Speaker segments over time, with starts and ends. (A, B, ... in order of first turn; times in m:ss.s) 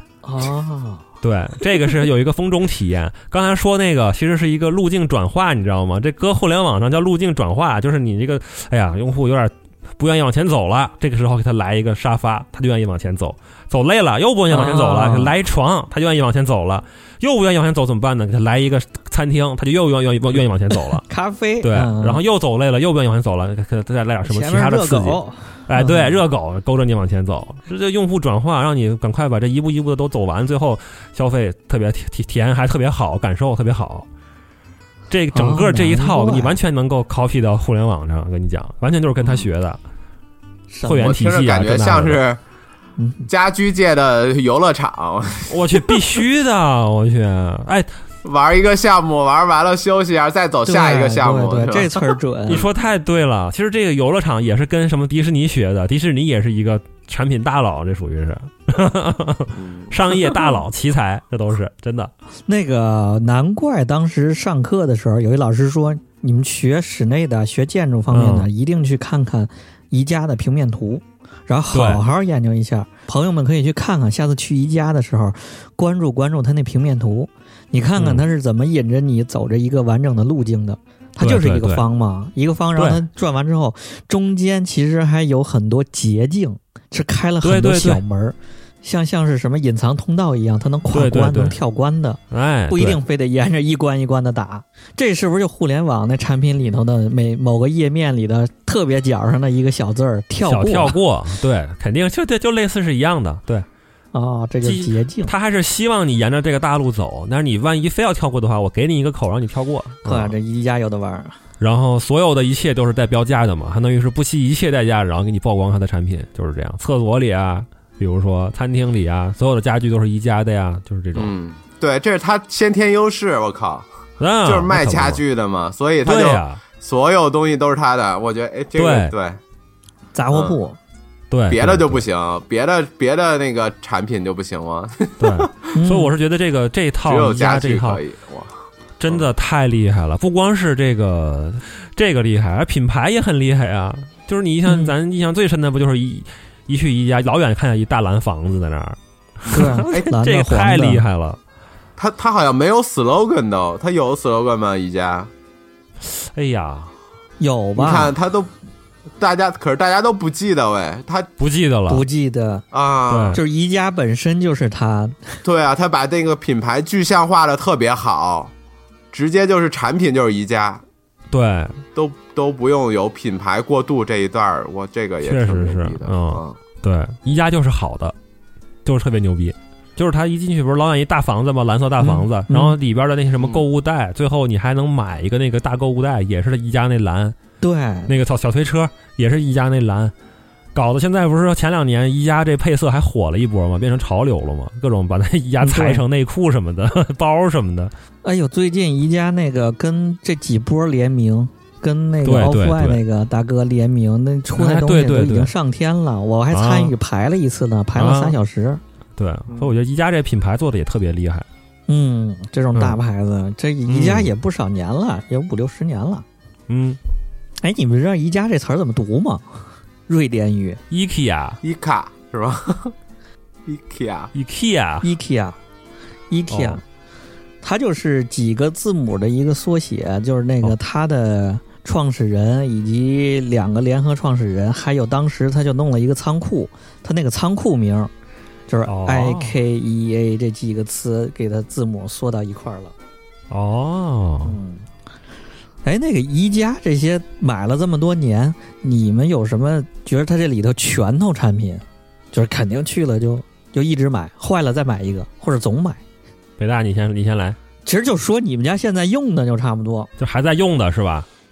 0:00.2-0:01.0 A
0:01.2-0:21.0 B
0:14.5-0:15.3 A
0:21.0-0:22.2 A
0:21.6-0:34.1 B
0:24.2-0:26.2 A
0:35.1-0:39.8 B
0:35.3-0:36.6 A
0:40.7-0:41.2 A
0:40.8-0:42.2 B
0:41.0-0:42.4 C
0:43.0-0:43.3 A
0:43.3-0:46.0 C
0:45.5-0:47.9 B
0:48.2-0:52.0 C
0:50.7-0:52.7 A
0:52.5-1:02.1 B
0:59.6-0:59.9 C
1:02.5-1:41.0 A
1:08.1-1:08.5 B
1:11.7-1:12.0 B
1:18.0-1:18.3 B
1:21.2-1:21.8 B
1:27.4-1:28.0 B
1:30.9-1:31.6 B
1:32.3-1:33.0 B
1:40.5-1:43.7 B
1:44.1-1:45.3 A
1:44.6-1:50.4 B
1:50.0-1:51.4 A
1:51.6-2:01.3 B
2:01.2-2:03.8 C
2:04.2-2:05.2 B
2:04.4-2:09.4 C
2:06.0-2:06.6 B
2:08.8-2:09.1 B
2:10.1-2:10.8 A
2:11.3-2:12.0 B
2:11.5-2:15.7 C
2:15.2-2:18.0 B
2:15.7-2:16.1 A
2:17.0-2:18.5 C
2:19.0-2:31.4 B
2:24.7-2:24.9 A
2:29.5-2:30.0 C
2:29.5-2:31.0 A
2:32.0-2:35.3 C
2:36.1-2:36.9 B
2:37.4-2:38.2 A
2:37.8-2:38.5 C
2:39.2-2:41.3 C
2:41.4-2:42.0 B
2:41.9-2:42.6 A
2:42.7-2:43.4 C
2:43.1-2:43.4 B
2:43.3-2:45.4 A
2:45.4-2:48.5 C
2:49.1-2:50.8 C
2:51.3-2:51.8 B
2:52.0-2:56.6 C
2:55.2-2:58.2 B
2:58.8-3:07.4 B
3:02.0-3:02.8 A
3:07.6-3:08.1 A
3:08.1-3:10.1 B
3:10.8-3:17.9 B
3:15.6-3:16.0 A
3:18.2-3:28.8 A
3:22.2-3:23.0 B
3:24.6-3:25.5 B
3:26.5-3:26.9 B
3:28.0-3:28.4 B
3:29.2-3:31.5 B
3:31.9-3:36.2 A
3:33.9-3:34.3 B
3:36.7-3:37.0 B
3:37.6-3:40.8 A
3:40.9-3:41.6 B
3:41.6-3:42.9 C
3:43.7-3:44.3 C
3:44.3-3:45.1 B
3:45.0-3:45.6 A
3:46.3-3:46.8 A
3:46.5-3:46.8 B
3:47.6-3:58.1 A
3:58.7-4:02.9 A
3:58.9-3:59.6 B
4:03.5-4:04.6 B
4:04.4-4:04.9 A
4:05.8-4:16.0 A
4:16.6-4:17.6 B
4:17.8-4:20.1 A
4:20.2-4:21.3 B